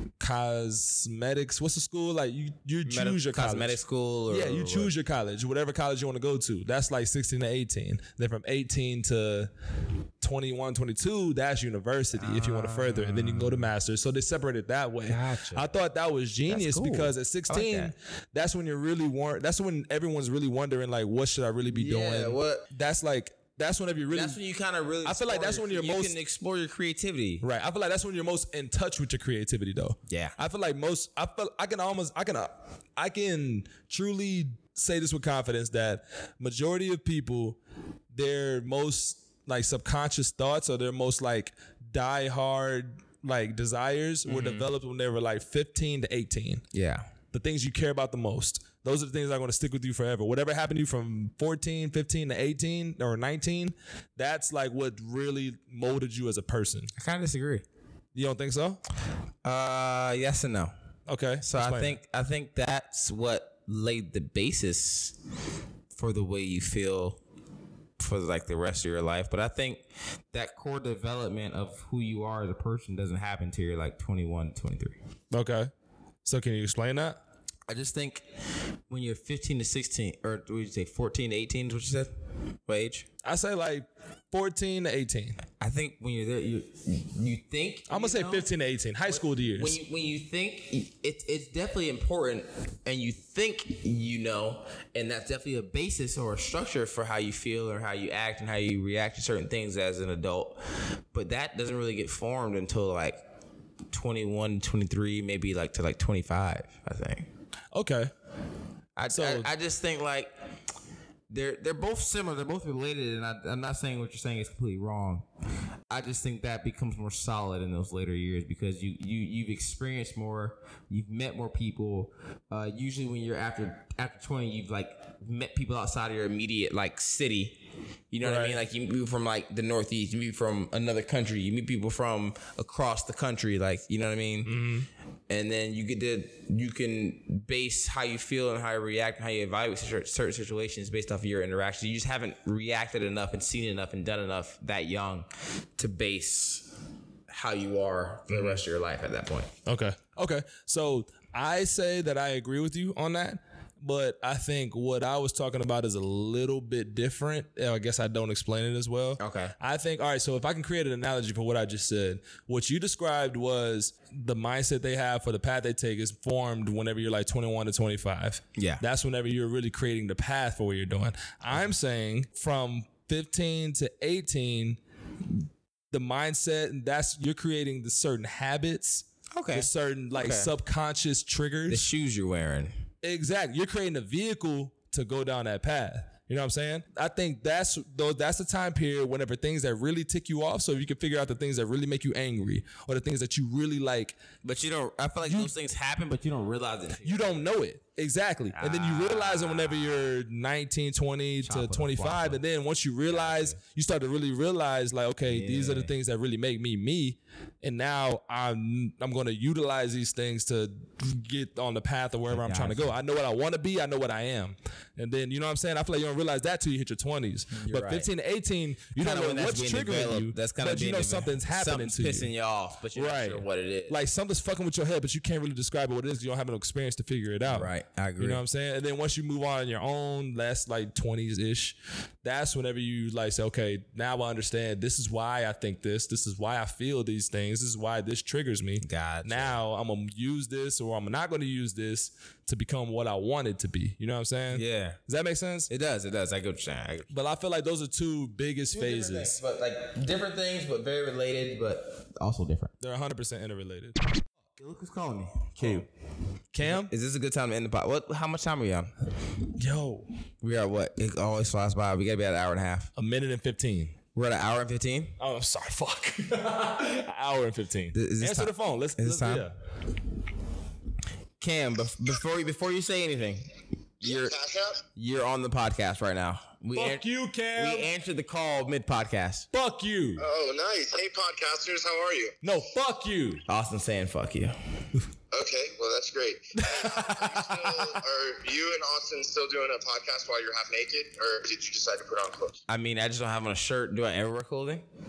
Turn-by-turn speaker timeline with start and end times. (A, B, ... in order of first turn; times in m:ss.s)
0:00.2-0:03.8 A
0:02.8-0:04.9 B
0:04.3-0:09.5 A
0:10.2-0:24.4 A
0:12.2-0:13.7 B
0:15.0-0:15.7 B
0:16.5-0:17.9 B
0:21.7-0:22.7 B
0:24.1-0:27.4 B
0:25.0-0:26.2 A
0:27.4-0:37.6 A
0:30.1-0:30.4 B
0:38.1-0:46.6 A
0:44.2-0:44.7 B
0:46.7-0:47.1 B
0:47.3-0:56.9 A
0:56.9-0:57.6 B
0:58.1-0:58.8 A
0:59.4-1:00.7 B
1:01.1-1:02.0 A
1:01.4-1:05.2 B
1:05.9-1:07.2 B
1:08.0-1:15.0 B
1:15.3-1:15.7 A
1:16.2-1:17.2 A
1:17.7-1:22.1 B
1:22.7-1:23.1 B
1:23.2-1:25.4 A
1:25.6-1:28.4 B
1:27.9-1:29.8 A
1:29.1-1:43.2 B
1:43.9-1:47.3 B
1:47.7-1:48.1 A
1:49.0-1:50.3 B
1:49.1-1:49.5 A
1:51.3-1:55.3 B
1:55.9-2:14.6 B
2:08.2-2:08.6 A
2:14.4-2:14.9 A
2:15.3-2:26.7 B
2:27.3-2:29.5 B
2:28.3-2:28.6 A
2:29.6-2:55.3 A
2:39.2-2:39.5 B
2:48.6-2:48.8 B
2:55.9-3:01.9 A
2:59.3-3:00.5 B
3:01.7-3:02.8 B
3:03.0-3:14.2 A
3:14.4-3:17.4 B
3:15.2-3:15.5 A
3:17.0-3:42.3 A
3:18.5-3:19.9 B
3:21.4-3:22.4 B
3:23.1-3:23.6 B
3:25.3-3:25.9 B
3:32.3-3:32.9 B
3:37.5-3:38.1 B
3:39.0-3:44.0 B
3:42.9-4:05.7 A
3:47.4-3:48.4 B
3:58.8-3:59.6 B
4:04.5-4:05.0 B
4:05.7-4:07.1 B
4:07.1-4:09.4 A
4:08.7-4:12.7 B
4:12.8-4:14.0 A
4:14.6-4:15.9 B
4:15.6-4:15.9 A
4:16.5-4:16.9 A
4:16.6-4:18.9 B
4:19.5-4:20.1 A
4:20.4-4:22.9 B
4:23.0-4:24.0 A
4:24.1-4:25.2 B
4:25.2-4:29.5 A
4:27.9-4:29.4 B
4:31.4-4:34.4 B
4:34.0-4:34.8 C
4:34.9-4:39.5 B
4:36.7-4:37.9 A
4:39.5-4:40.2 A
4:40.2-4:42.4 C
4:42.4-4:43.4 A
4:43.5-4:44.6 B
4:45.3-4:52.6 C
4:46.6-4:48.0 A
4:52.7-4:54.8 B